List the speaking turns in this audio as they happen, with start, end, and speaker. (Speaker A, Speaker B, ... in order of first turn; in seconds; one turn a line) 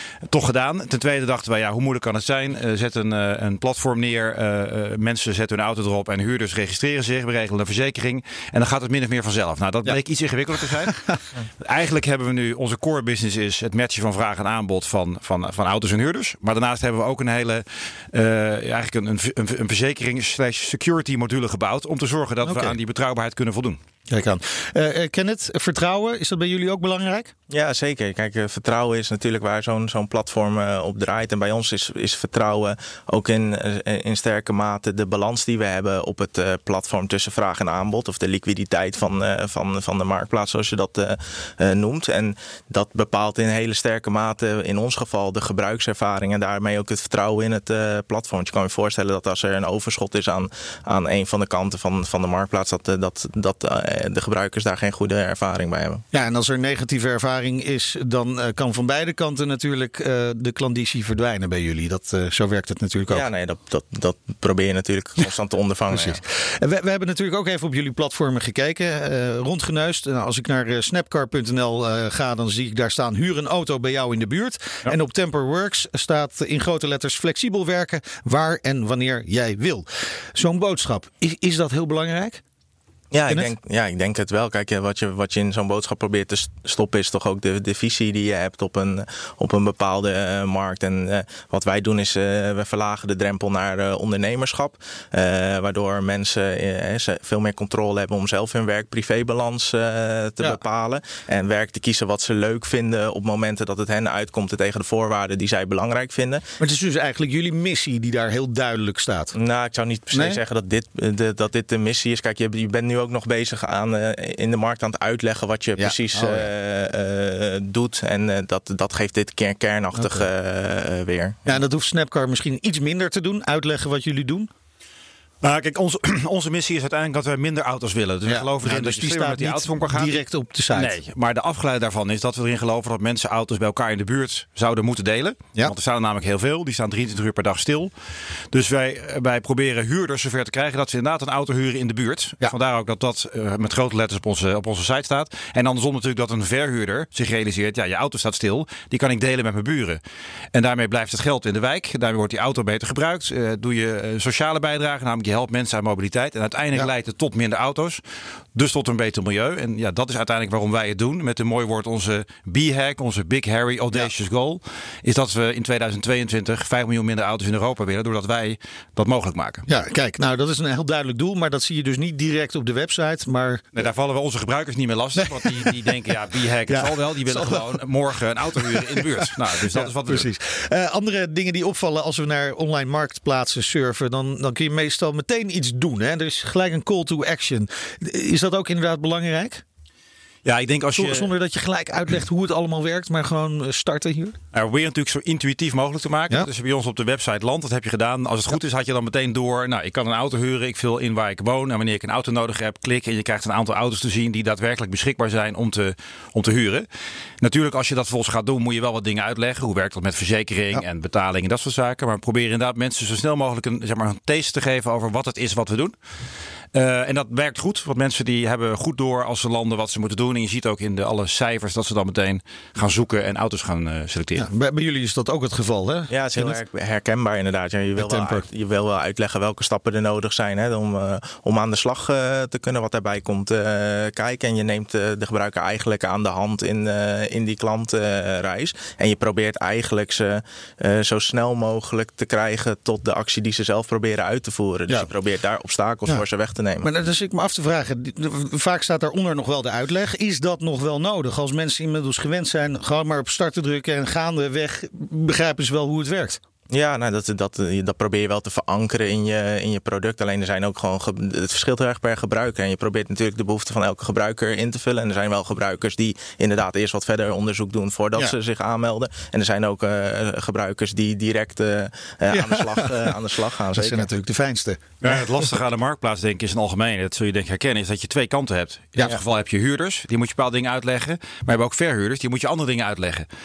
Speaker A: 0.3-23.8
Speaker B: 10.9-11.1
Speaker B: 22.4-22.7
Speaker B: 24.1-27.3
Speaker C: 27.5-56.0
Speaker B: 56.1-63.2
Speaker C: 63.1-66.2
Speaker B: 65.9-82.4
Speaker C: 83.1-106.5
Speaker B: 106.6-109.3
Speaker C: 109.3-121.6
Speaker B: 110.1-110.4
Speaker B: 115.8-116.5
Speaker B: 120.0-120.3
Speaker B: 121.5-124.5
Speaker A: 125.4-130.2
Speaker B: 128.3-131.0
Speaker A: 130.7-137.9
Speaker A: 138.5-150.0
Speaker A: 150.5-158.0
Speaker A: 158.6-169.7
Speaker B: 169.7-173.8
Speaker A: 173.8-180.3
Speaker B: 175.2-175.7
Speaker B: 176.7-177.6
Speaker B: 178.6-189.6
Speaker A: 190.4-191.3
Speaker B: 190.9-194.4
Speaker A: 194.5-206.9
Speaker A: 207.4-215.9
Speaker A: 216.7-224.5
Speaker B: 224.4-226.6
Speaker C: 226.1-246.9
Speaker B: 228.0-228.4
Speaker B: 246.8-256.4
Speaker C: 256.7-274.1
Speaker B: 272.3-273.1
Speaker B: 273.7-275.2
Speaker A: 275.0-283.3